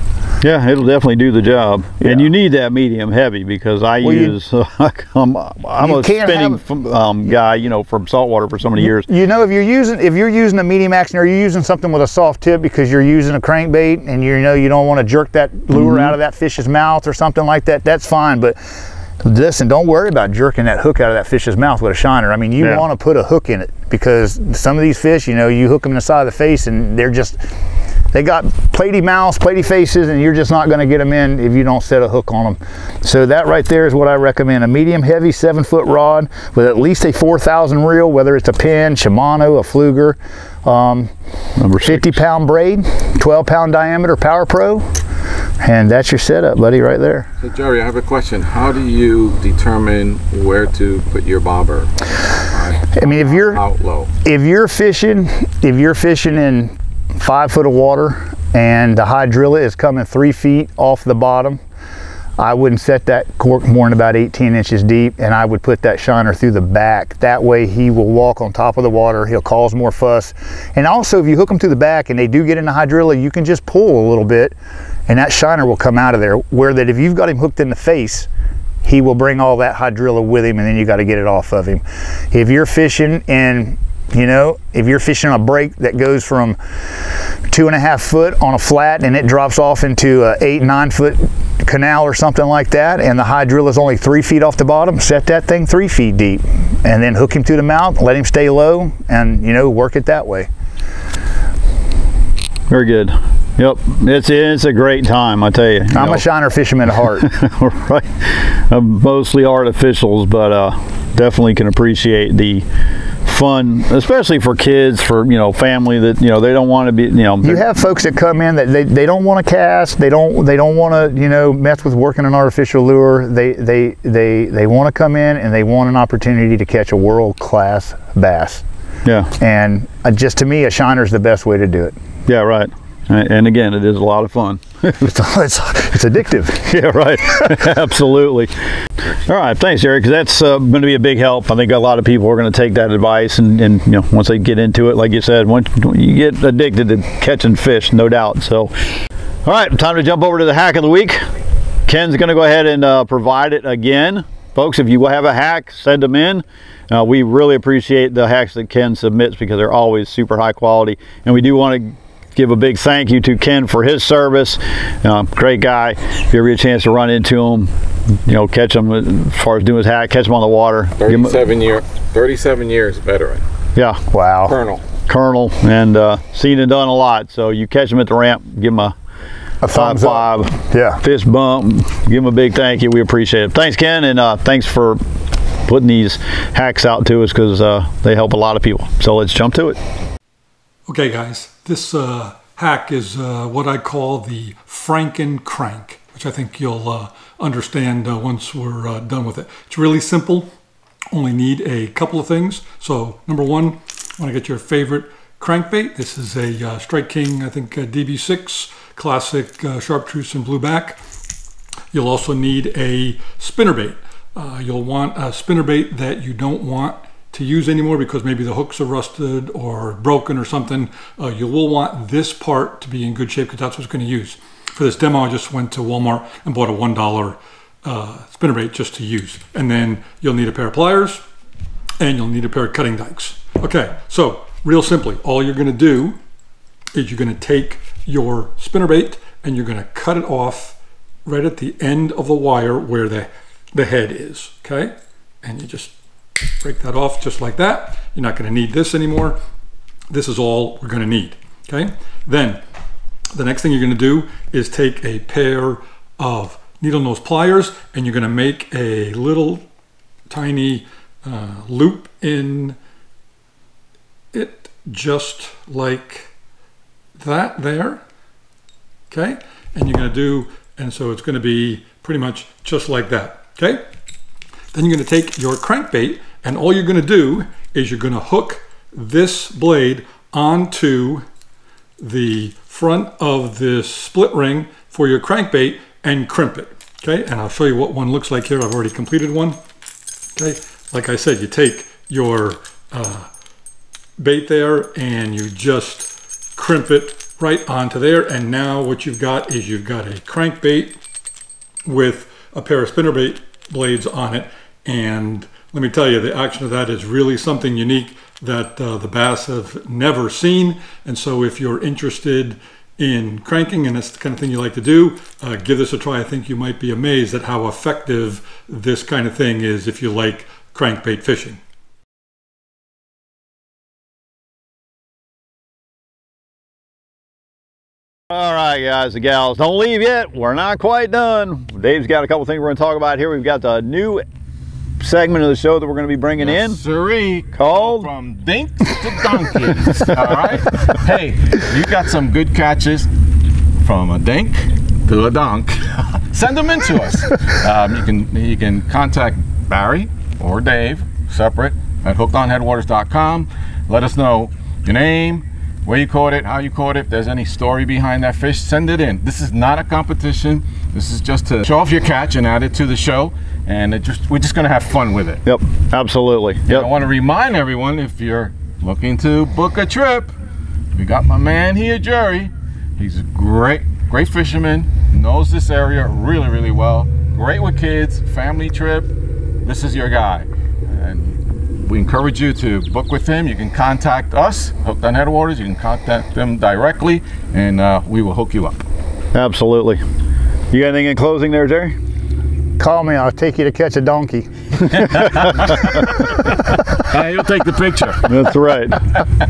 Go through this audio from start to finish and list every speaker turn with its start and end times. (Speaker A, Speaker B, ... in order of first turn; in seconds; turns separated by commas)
Speaker A: 0.4-9.1, Speaker B: 2.0-2.3, Speaker B: 4.0-4.4, Speaker B: 5.8-6.6, Speaker B: 8.8-18.6, Speaker A: 15.7-16.1, Speaker B: 19.2-27.4, Speaker B: 28.1-41.1, Speaker A: 41.6-42.2, Speaker B: 41.8-44.9, Speaker B: 45.6-47.3, Speaker C: 47.4-54.1, Speaker B: 52.9-53.6, Speaker B: 54.2-61.6, Speaker B: 62.4-74.5, Speaker B: 75.1-78.3, Speaker B: 78.8-86.6, Speaker B: 87.5-100.5, Speaker A: 102.7-106.2, Speaker B: 105.9-107.3, Speaker A: 107.2-112.6, Speaker A: 113.2-117.7, Speaker B: 117.4-128.6, Speaker A: 129.1-129.3, Speaker B: 129.4-132.0, Speaker A: 132.3-135.1, Speaker B: 135.0-136.6, Speaker A: 136.6-138.5, Speaker A: 139.0-148.7, Speaker A: 149.4-151.2, Speaker A: 151.9-167.7, Speaker A: 168.3-171.4, Speaker C: 171.0-173.4, Speaker A: 173.8-174.0, Speaker B: 174.1-174.6, Speaker C: 174.5-174.8, Speaker A: 175.1-178.9, Speaker B: 179.6-181.0, Speaker A: 179.7-185.0, Speaker A: 185.7-189.8, Speaker D: 190.9-200.5, Speaker D: 201.1-211.0, Speaker D: 211.9-231.2, Speaker D: 232.0-236.2, Speaker D: 236.9-245.9, Speaker D: 246.6-249.4, Speaker D: 250.1-252.6, Speaker D: 253.3-259.7, Speaker D: 260.3-262.8, Speaker D: 264.3-266.3, Speaker D: 267.2-268.0, Speaker D: 269.1-273.9, Speaker D: 274.7-281.3, Speaker D: 282.0-289.6, Speaker D: 290.4-293.3, Speaker D: 294.2-301.0, Speaker D: 301.9-321.6, Speaker A: 328.3-334.2, Speaker A: 335.0-336.8, Speaker C: 336.4-343.1, Speaker A: 337.5-338.1, Speaker C: 343.8-365.4, Speaker A: 365.5-366.9, Speaker C: 366.7-370.3, Speaker C: 370.9-379.1, Speaker C: 379.6-388.8, Speaker A: 389.3-390.0, Speaker A: 390.7-392.0, Speaker B: 392.8-394.5, Speaker C: 395.1-398.4, Speaker A: 398.2-399.0